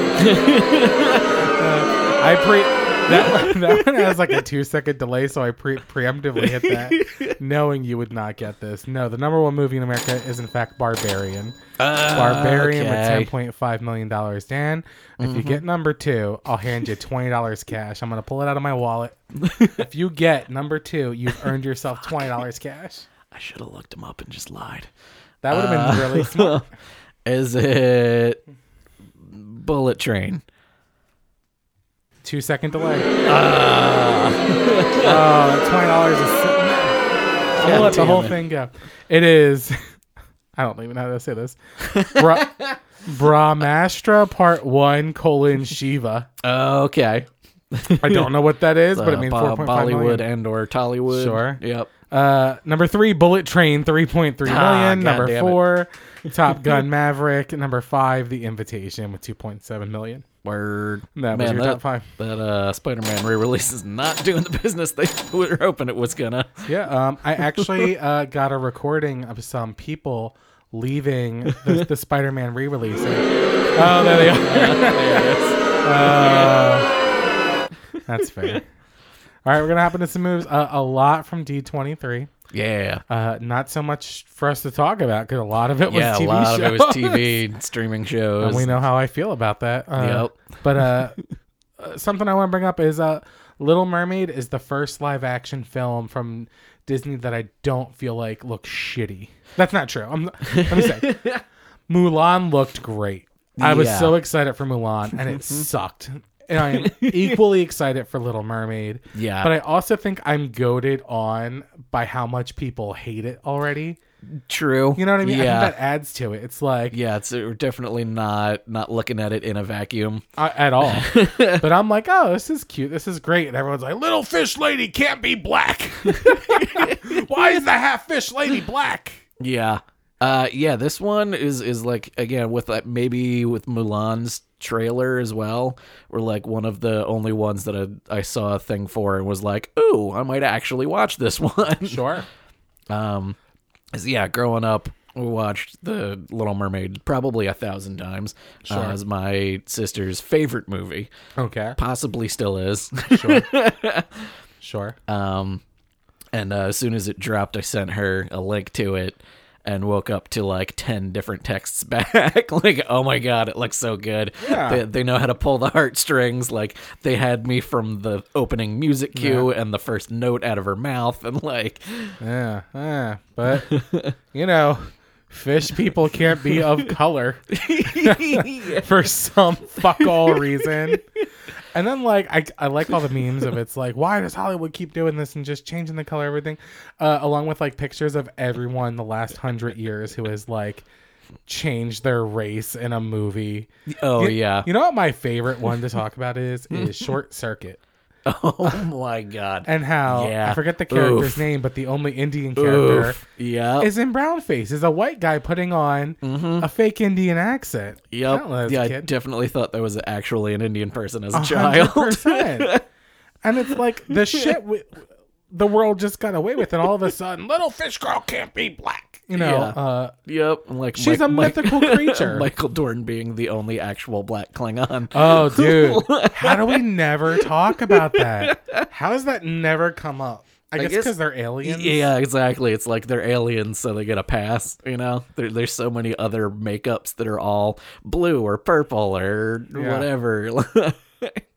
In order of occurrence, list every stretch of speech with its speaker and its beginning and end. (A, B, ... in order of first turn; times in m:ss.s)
0:00.1-0:01.5 A
0:01.4-0:11.6 B
0:03.1-0:04.4 A
0:06.4-0:07.4 A
0:11.8-0:13.3 A
0:12.1-0:19.2 B
0:15.2-0:15.6 A
0:19.4-0:19.8 A
0:19.7-0:23.1 B
0:23.3-0:24.9 A
0:25.4-0:26.7 B
0:25.5-0:26.6 A
0:27.2-0:28.4 A
0:29.2-0:30.4 A
0:32.2-0:33.1 B
0:33.2-0:35.2 A
0:35.0-0:37.0 B
0:37.6-0:39.8 B
0:37.6-0:38.4 A
0:40.6-0:46.3 B
0:41.8-0:42.8 A
0:46.4-0:48.3 A
0:48.0-0:50.2 B
0:48.9-0:51.9 A
0:51.1-1:00.2 B
0:54.4-0:55.7 A
1:00.4-1:06.7 A
1:01.2-1:02.1 B
1:06.6-1:16.9 B
1:07.4-1:07.9 A
1:11.5-1:11.8 A
1:13.8-1:16.5 A
1:18.1-1:18.6 B
1:19.4-1:22.3 B
1:22.5-1:23.0 A
1:23.1-1:27.4 B
1:25.9-1:28.8 A
1:28.4-1:31.2 B
1:30.0-1:30.9 A
1:31.8-1:41.2 B
1:40.4-1:41.4 A
1:41.9-1:54.0 B
1:43.6-1:44.2 A
1:45.3-1:45.6 A
1:46.6-1:47.4 A
1:49.1-1:49.5 A
1:54.3-1:55.7 A
1:55.0-1:57.0 B
1:56.9-2:00.2 A
2:00.4-2:09.2 B
2:00.8-2:01.6 A
2:06.1-2:07.2 A
2:09.4-2:22.0 A
2:21.8-2:22.2 B
2:22.9-2:23.4 A
2:23.9-2:31.1 A
2:28.7-2:29.0 B
2:31.4-2:31.8 B
2:31.8-2:34.3 A
2:33.1-2:33.5 B
2:34.6-2:35.0 B
2:35.1-2:35.6 A
2:36.3-2:52.2 A
2:44.4-2:44.8 B
2:49.1-2:49.5 B
2:52.2-2:53.7 B
2:53.5-2:54.1 A
2:54.3-3:01.0 B
2:57.5-2:58.8 A
2:59.9-3:01.0 A
3:01.7-3:10.8 B
3:11.4-3:17.8 B
3:13.9-3:14.7 A
3:18.2-3:21.4 A
3:19.6-3:23.2 B
3:22.5-3:23.9 A
3:23.8-3:29.1 B
3:26.2-3:26.7 A
3:28.1-3:32.8 A
3:31.3-3:32.7 B
3:33.4-3:40.1 B
3:34.1-3:34.6 A
3:39.3-3:46.8 A
3:41.0-3:42.5 B
3:45.1-3:52.1 B
3:47.4-3:48.9 A
3:50.8-4:01.4 A
3:59.7-4:00.1 B